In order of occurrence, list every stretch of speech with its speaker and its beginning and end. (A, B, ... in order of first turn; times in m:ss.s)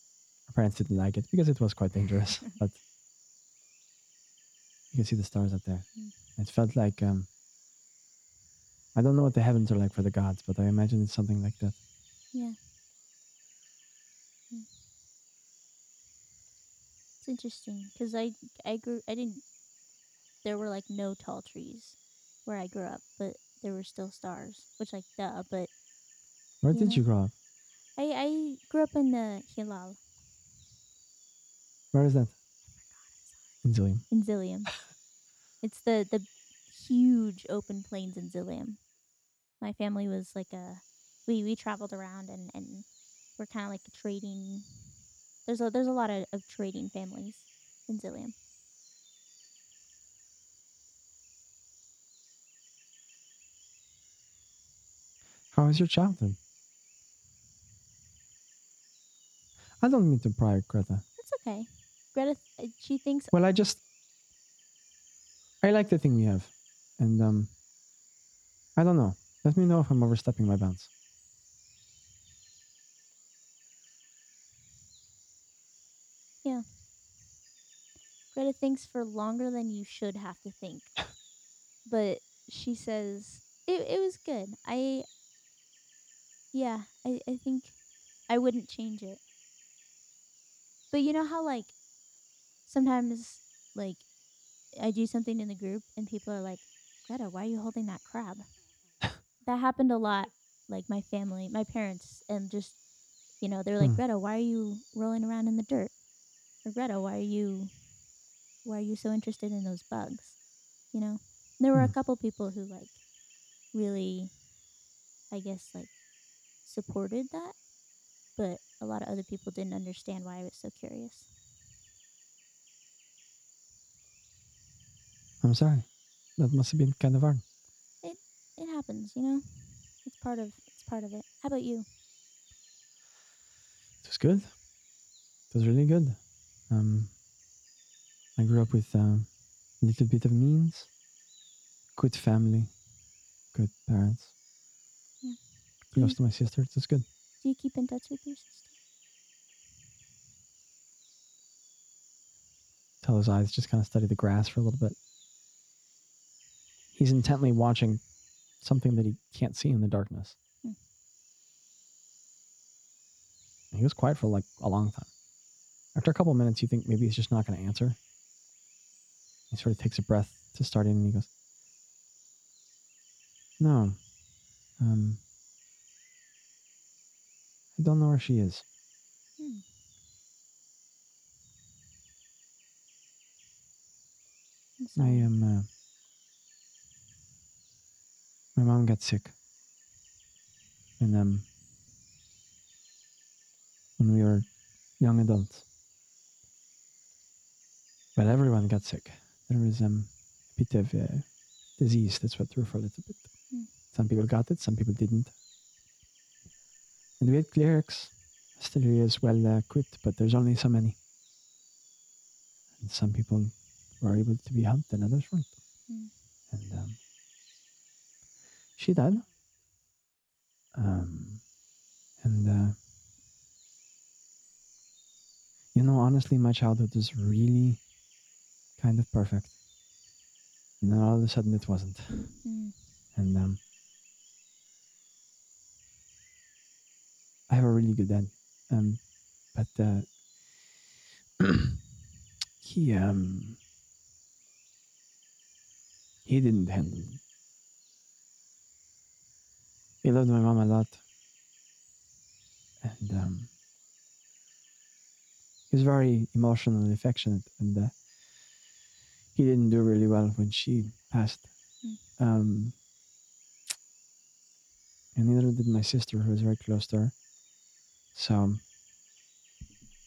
0:00.5-0:02.8 A
0:04.9-0:07.3 A
0:09.0-0:11.8 A
0:17.2-0:19.4 B
0:20.4-0:25.7 B
0:26.6-0:27.3 A
0:26.7-0:27.0 B
0:28.0-0:30.0 B
0:31.9-0:32.3 A
0:33.6-0:34.0 A
0:34.1-0:34.8 B
0:35.6-0:38.8 B
0:39.6-0:44.7 B
0:45.5-0:48.4 B
0:55.5-0:56.4 A
0:59.8-1:01.0 A
1:01.2-1:03.3 B
1:03.3-1:03.8 A
1:05.6-1:07.5 A
1:08.8-1:10.9 A
1:18.3-1:21.1 B
1:21.8-1:25.1 B
1:26.5-1:27.8 B
1:28.3-1:29.2 B
1:30.9-1:31.8 B
1:32.7-1:34.0 B
1:34.7-1:38.5 B
1:39.4-1:42.8 B
1:43.4-1:45.9 B
1:46.6-1:47.7 B
1:48.6-1:50.4 B
1:50.9-1:53.0 B
1:53.7-1:54.3 B
1:55.3-1:55.9 B
1:56.6-1:57.6 B
1:58.4-2:01.3 B
2:05.4-2:07.4 A
2:08.0-2:11.9 B
2:14.0-2:14.5 A
2:15.5-2:16.2 A
2:16.7-2:17.1 A
2:18.4-2:19.3 A
2:19.8-2:20.9 A
2:22.0-2:22.7 A
2:23.5-2:24.3 A
2:25.9-2:26.2 B
2:25.9-2:27.0 A
2:27.4-2:28.7 B
2:33.0-2:35.0 A
2:37.0-2:38.0 A
2:38.6-2:40.4 A
2:43.7-2:45.1 A
2:45.9-2:48.0 A
2:49.5-2:51.3 A
2:53.6-2:54.0 A
2:54.8-2:55.2 A
2:57.8-2:58.6 A
2:59.4-2:59.6 B
3:04.8-3:05.3 B
3:05.0-3:05.7 A
3:08.6-3:09.3 A
3:11.0-3:11.5 A
3:14.0-3:14.5 A
3:15.0-3:15.6 A
3:18.2-3:23.3 A
3:23.9-3:25.3 A
3:27.2-3:31.0 A
3:32.8-3:35.5 A
3:36.5-3:37.0 A
3:38.8-3:39.2 A
3:40.8-3:41.4 A
3:42.2-3:42.8 A
3:45.7-3:47.8 A
3:48.8-3:49.6 A
3:50.8-3:52.4 A
3:52.4-3:52.8 B
3:53.2-3:53.6 A
3:57.5-4:00.2 A
4:01.4-4:01.8 A
4:02.6-4:03.6 A
4:06.2-4:07.2 A
4:10.0-4:11.0 A
4:12.8-4:13.5 A
4:15.7-4:18.0 A
4:19.4-4:21.5 A
4:22.2-4:22.8 A
4:25.2-4:27.1 A
4:28.1-4:28.6 A